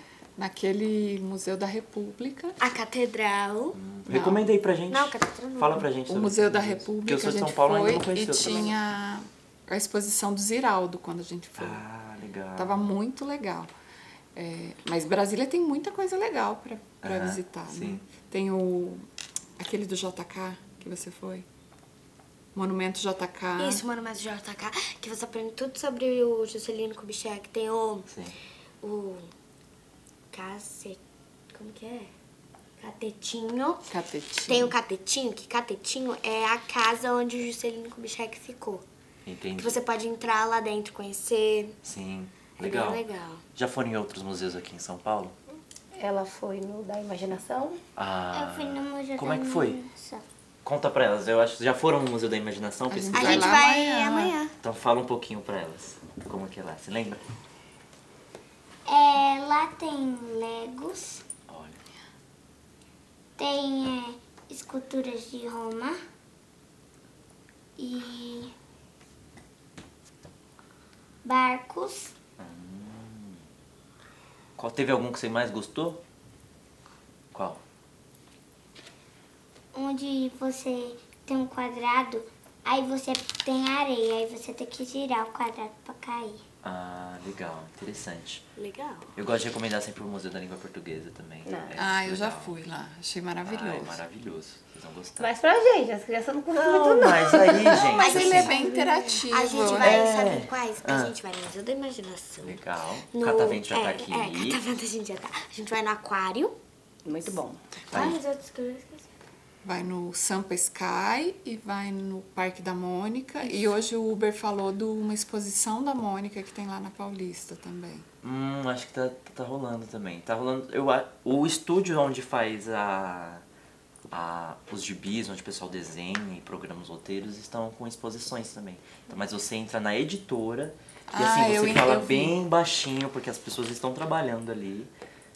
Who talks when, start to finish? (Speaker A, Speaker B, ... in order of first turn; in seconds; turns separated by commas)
Speaker A: 0.3-2.5, Speaker B: 2.6-3.8, Speaker C: 3.7-8.7, Speaker A: 4.1-4.4, Speaker B: 4.9-5.8, Speaker A: 6.1-11.8, Speaker C: 11.6-12.9, Speaker A: 12.6-13.7, Speaker A: 14.3-19.1, Speaker C: 17.0-18.0, Speaker A: 19.6-21.4, Speaker A: 22.5-23.8, Speaker B: 23.6-28.1, Speaker C: 28.1-28.4, Speaker B: 28.8-29.3, Speaker B: 30.3-31.0, Speaker B: 31.5-32.1, Speaker B: 32.8-33.9, Speaker A: 33.9-34.8, Speaker B: 34.5-38.8, Speaker C: 39.2-39.8, Speaker B: 39.6-41.8, Speaker C: 41.8-45.3, Speaker B: 42.5-43.4, Speaker D: 45.9-47.8, Speaker C: 48.0-49.8, Speaker E: 48.3-50.2, Speaker C: 50.6-53.5, Speaker A: 52.9-54.4, Speaker B: 53.1-54.5, Speaker C: 54.6-57.2, Speaker E: 58.9-61.2, Speaker C: 61.5-61.8, Speaker E: 63.4-66.0, Speaker E: 67.8-68.5, Speaker E: 71.2-72.1, Speaker C: 72.4-73.4, Speaker C: 74.6-76.0, Speaker C: 77.3-77.6, Speaker E: 79.7-86.4, Speaker C: 86.6-88.4, Speaker B: 88.6-89.1, Speaker C: 89.2-92.5, Speaker D: 91.4-91.8, Speaker A: 91.8-94.0, Speaker C: 93.4-95.3, Speaker D: 95.2-97.9, Speaker C: 96.5-98.5, Speaker A: 97.8-100.0, Speaker B: 97.9-98.7, Speaker D: 98.5-99.0, Speaker B: 99.2-106.5, Speaker C: 99.8-101.1, Speaker C: 102.4-104.6, Speaker D: 107.0-107.6, Speaker B: 107.9-109.1, Speaker C: 107.9-108.2, Speaker A: 109.6-118.0, Speaker C: 118.2-123.4, Speaker C: 124.1-134.9, Speaker A: 131.1-132.3